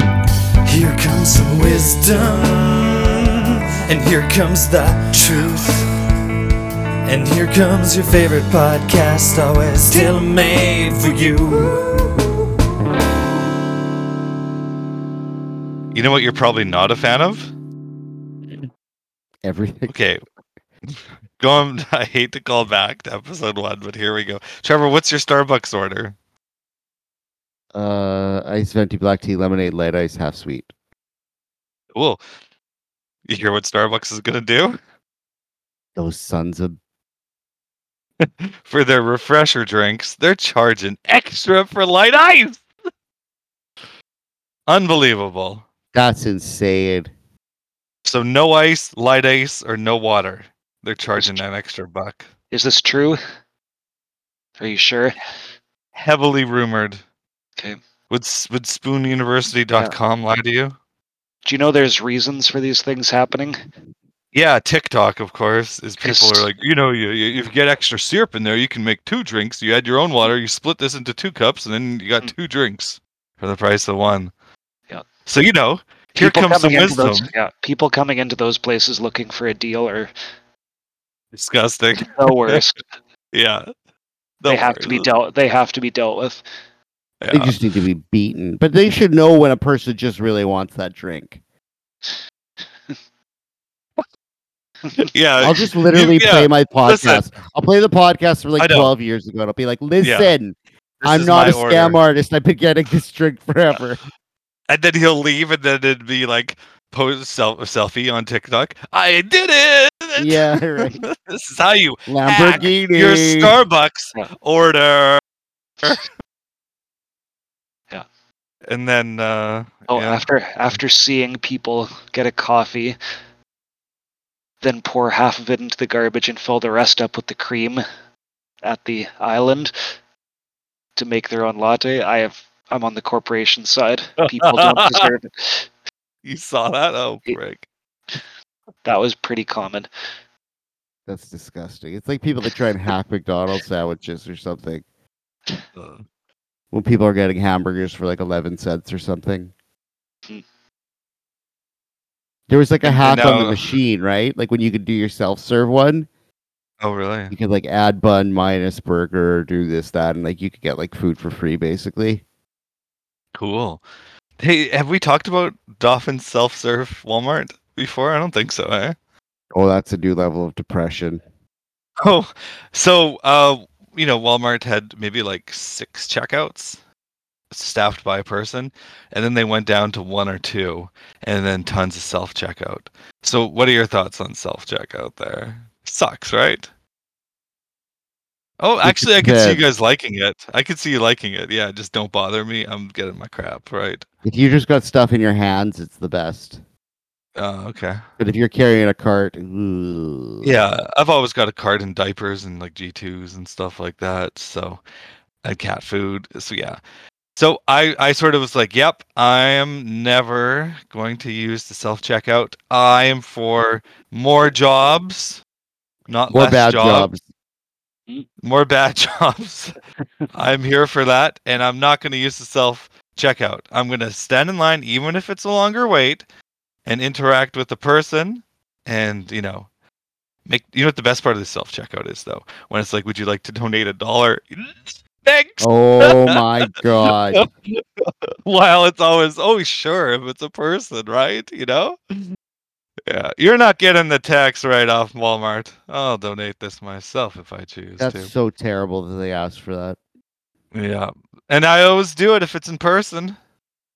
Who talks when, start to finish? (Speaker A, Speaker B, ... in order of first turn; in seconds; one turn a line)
Speaker A: 0.7-3.3
Speaker A: 3.8-5.9
Speaker A: 7.0-12.2
Speaker B: 15.9-17.5
Speaker C: 19.4-19.9
Speaker B: 19.9-20.2
Speaker B: 20.9-26.1
Speaker C: 27.7-30.7
Speaker B: 31.9-32.2
Speaker B: 33.2-34.8
Speaker C: 36.0-36.8
Speaker B: 38.2-42.6
Speaker B: 44.7-45.6
Speaker C: 45.9-47.1
Speaker B: 48.0-52.3
Speaker D: 51.1-51.4
Speaker D: 52.5-53.2
Speaker D: 54.6-55.1
Speaker B: 55.9-57.0
Speaker B: 58.1-60.8
Speaker D: 61.4-63.6
Speaker B: 64.3-74.3
Speaker D: 66.0-66.5
Speaker B: 75.2-77.3
Speaker D: 76.2-80.1
Speaker B: 81.3-82.6
Speaker D: 82.2-82.8
Speaker B: 83.3-83.7
Speaker B: 84.4-85.1
Speaker D: 84.5-86.4
Speaker B: 87.2-87.5
Speaker C: 87.3-91.4
Speaker B: 95.0-97.2
Speaker C: 95.4-104.0
Speaker B: 98.6-98.9
Speaker B: 100.0-100.3
Speaker B: 101.0-102.0
Speaker B: 104.7-115.2
Speaker C: 110.2-111.0
Speaker C: 112.1-113.6
Speaker B: 118.7-120.2
Speaker D: 119.9-123.0
Speaker D: 124.6-127.8
Speaker D: 128.6-129.7
Speaker D: 130.9-135.7
Speaker B: 134.2-135.1
Speaker B: 136.2-137.6
Speaker D: 138.8-139.9
Speaker C: 141.1-144.8
Speaker B: 145.7-146.1
Speaker C: 146.7-149.5
Speaker C: 152.5-156.1
Speaker B: 152.8-153.7
Speaker B: 156.8-157.3
Speaker C: 157.3-162.2
Speaker B: 163.3-163.8
Speaker B: 164.4-168.9
Speaker C: 169.5-171.2
Speaker B: 172.0-176.8
Speaker B: 177.5-186.7
Speaker B: 188.6-194.1
Speaker C: 188.8-189.6
Speaker C: 194.2-196.6
Speaker B: 197.3-198.0
Speaker C: 198.2-200.6
Speaker B: 200.4-204.8
Speaker B: 205.4-206.8
Speaker B: 207.3-215.4
Speaker B: 216.1-217.1
Speaker C: 216.3-217.2
Speaker B: 218.4-219.7
Speaker B: 220.3-226.2
Speaker B: 226.8-229.7
Speaker B: 230.4-236.4
Speaker C: 235.6-237.5
Speaker B: 237.0-242.2
Speaker B: 243.1-248.3
Speaker C: 248.0-250.0
Speaker B: 250.7-253.4